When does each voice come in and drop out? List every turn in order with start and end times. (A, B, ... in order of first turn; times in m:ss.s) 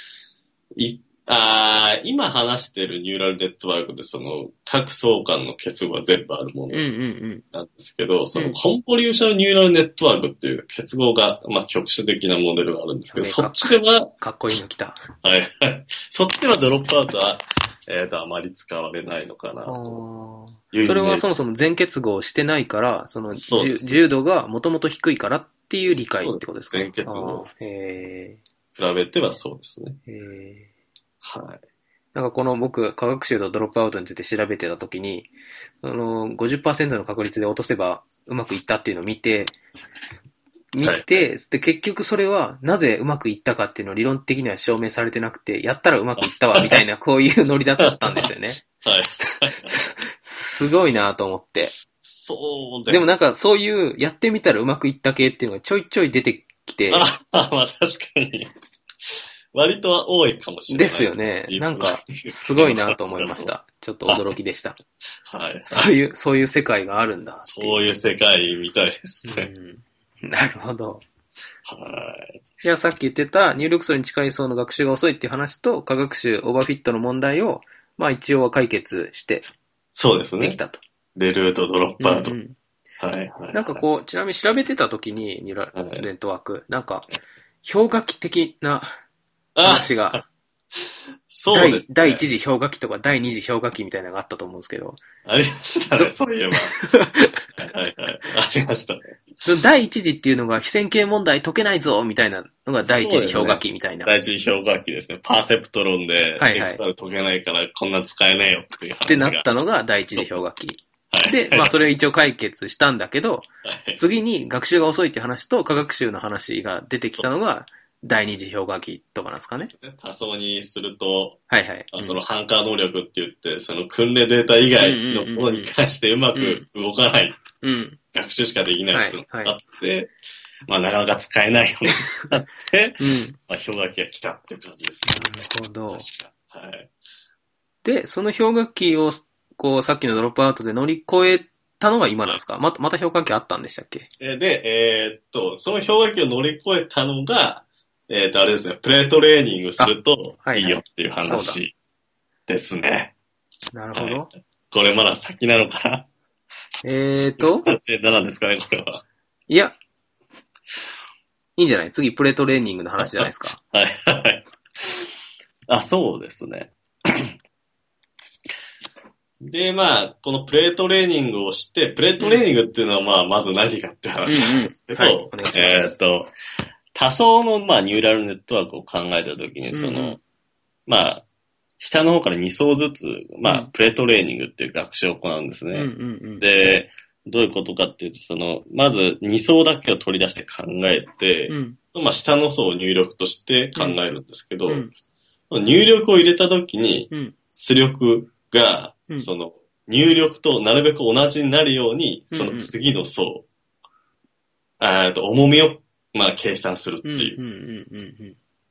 0:00.8-0:06.8 A
0:06.7-0:07.4 B
0:07.5-0:14.1 A
0:13.1-0:15.0 B
0:15.2-0:20.0 A
0:19.7-0:28.4 B
0:20.7-0:21.3 A
0:23.3-0:24.0 A
0:26.2-0:27.5 A
0:28.8-0:30.0 A
0:30.1-0:30.7 B
0:31.2-0:31.6 A
0:32.2-0:35.3 B
0:35.8-0:39.6 B
0:40.7-0:48.6 B
0:40.8-0:41.3 A
0:46.2-0:46.8 A
0:47.9-0:48.3 A
0:48.8-0:49.8 A
0:49.3-0:51.8 B
0:52.0-0:53.4 A
0:52.9-0:57.1 B
0:56.9-0:58.5 A
0:59.1-1:03.5 A
1:00.7-1:04.8 B
1:05.3-1:05.9 A
1:05.7-1:07.9 B
1:07.4-1:09.5 A
1:09.3-1:11.0 B
1:11.7-1:12.4 A
1:12.6-1:19.5 B
1:20.0-1:20.6 A
1:20.4-1:20.8 B
1:21.2-1:22.4 A
1:22.0-1:22.6 B
1:23.0-1:23.8 A
1:23.5-1:27.1 B
1:25.8-1:26.0 A
1:27.6-1:29.0 B
1:29.6-1:30.2 A
1:29.6-1:30.2 B
1:30.8-1:32.2 A
1:31.5-1:35.0 B
1:35.2-1:36.8 A
1:35.9-1:37.4 B
1:37.6-1:39.2 A
1:39.4-1:44.1 B
1:42.8-1:50.4 A
1:46.4-1:46.8 B
1:49.1-1:59.7 B
1:51.1-1:51.8 A
1:53.6-1:54.0 A
1:59.7-2:01.4 A
2:01.5-2:02.2 B
2:01.9-2:07.4 A
2:04.8-2:05.7 B
2:06.4-2:06.7 B
2:07.6-2:08.0 B
2:08.1-2:10.1 A
2:08.9-2:09.6 B
2:10.7-2:16.9 A
2:12.0-2:12.3 B
2:13.0-2:13.4 B
2:15.1-2:16.1 B
2:17.8-2:24.1 B
2:24.2-2:31.7 A
2:29.8-2:31.6 B
2:32.5-2:33.1 A
2:33.7-2:34.3 B
2:34.0-2:36.1 A
2:36.8-2:37.7 B
2:37.4-2:39.0 A
2:39.5-2:39.8 B
2:41.6-2:43.6 B
2:43.0-2:45.1 A
2:45.7-2:47.4 A
2:49.4-2:56.3 A
2:54.3-2:56.0 B
2:56.9-3:00.2 A
2:59.7-3:00.2 B
3:00.9-3:01.2 A
3:01.8-3:14.8 A
3:03.4-3:03.7 B
3:05.7-3:06.4 B
3:11.5-3:11.8 B
3:14.7-3:14.9 B
3:15.5-3:23.5 A
3:17.1-3:17.4 B
3:22.3-3:22.7 B
3:24.8-3:27.4 A
3:27.0-3:28.4 B